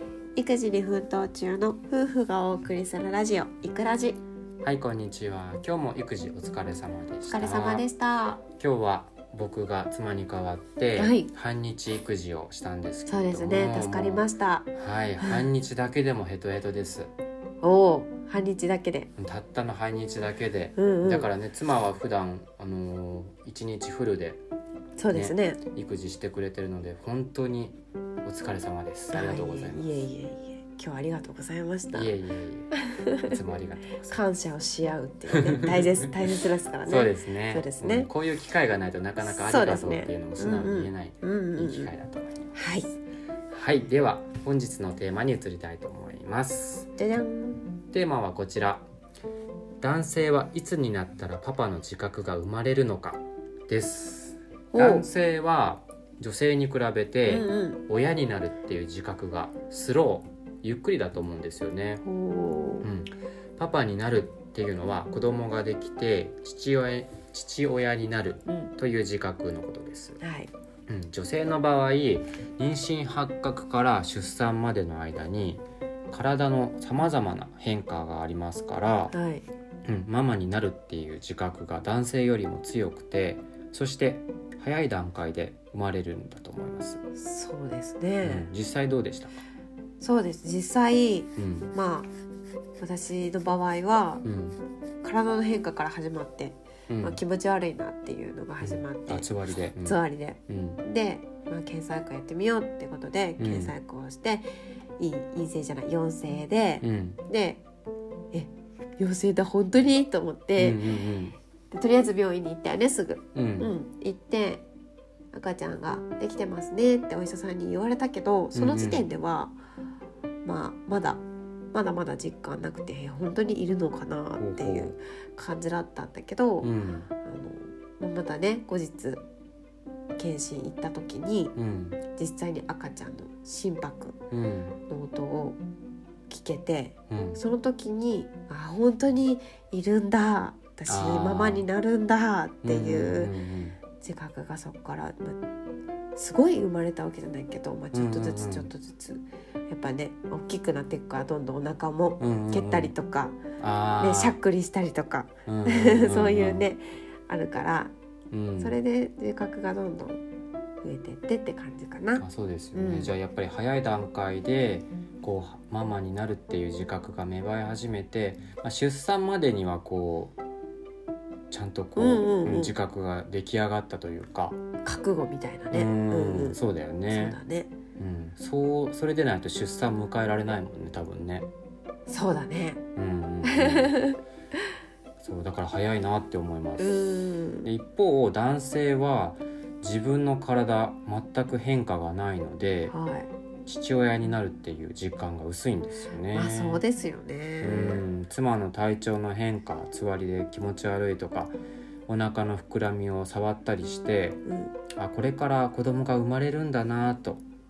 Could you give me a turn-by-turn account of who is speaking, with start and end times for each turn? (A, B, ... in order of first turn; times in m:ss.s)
0:00.4-0:04.2 A
0:04.6-0:07.8 B
0:07.3-0:08.4 A
0:08.6-0:17.1 B
0:11.0-0:11.3 A
0:13.0-0:14.7 A
0:15.2-0:15.4 A
0:17.6-0:19.1 A
0:19.2-0:24.4 B
0:20.8-0:21.3 A
0:25.0-0:25.6 A
0:25.1-0:30.0 B
0:29.1-0:32.2 A
0:31.9-0:32.7 B
0:32.7-0:33.3 A
0:33.2-0:34.2 B
0:34.1-0:38.1 A
0:35.3-0:36.1 B
0:36.8-0:42.5 B
0:39.2-0:41.9 A
0:42.5-0:42.9 A
0:43.5-0:46.9 B
0:47.0-0:47.7 A
0:47.9-0:48.8 B
0:49.8-1:02.0 B
0:54.7-0:55.1 A
0:57.3-0:57.8 A
1:02.0-1:02.9 A
1:02.8-1:10.2 B
1:10.2-1:10.5 A
1:10.9-1:19.1 B
1:19.1-1:19.4 A
1:19.8-1:27.0 B
1:27.1-1:28.5 A
1:28.2-1:29.4 B
1:30.0-1:32.1 A
1:31.4-1:31.7 B
1:32.8-1:34.2 A
1:34.2-1:34.6 B
1:35.0-1:39.3 A
1:36.9-1:37.2 B
1:38.6-1:40.8 B
1:39.8-1:44.4 A
1:43.4-1:43.7 B
1:45.0-1:47.6 A
1:46.8-1:47.2 B
1:48.3-1:50.9 A
1:50.6-1:51.4 B
1:51.7-1:54.6 A
1:53.3-1:53.7 B
1:55.3-1:59.6 A
1:58.5-1:59.1 B
2:00.4-2:01.2 A
2:01.7-2:06.7 A
2:04.4-2:04.9 B
2:06.6-2:07.1 B
2:07.2-2:09.2 A
2:10.2-2:11.5 A
2:11.6-2:12.0 B
2:12.1-2:14.2 A
2:14.3-2:14.8 B
2:14.9-2:15.6 A
2:16.3-2:23.3 A
2:17.1-2:17.4 B
2:20.9-2:21.7 B
2:22.6-2:23.8 B
2:24.0-2:25.4 A
2:26.1-2:33.4 A
2:27.9-2:28.7 B
2:32.2-2:32.9 B
2:33.6-2:34.4 B
2:34.0-2:37.9 A
2:35.4-2:36.6 B
2:38.3-2:38.8 B
2:38.6-2:40.2 A
2:40.8-2:43.1 A
2:42.2-2:50.4 B
2:51.5-2:54.6 B
2:52.0-2:52.7 A
2:54.8-2:56.6 A
2:55.7-2:57.4 B
2:57.1-2:57.7 A
2:58.0-3:01.5 B
3:02.1-3:02.8 A
3:02.9-3:04.0 B
3:03.4-3:04.2 A
3:05.2-3:12.9 B
3:06.8-3:07.7 A
3:12.9-3:13.3 A
3:13.6-3:16.8 B
3:16.3-3:18.0 A
3:17.6-3:21.5 B
3:22.1-3:24.4 B
3:24.4-3:24.7 A
3:24.9-3:27.4 B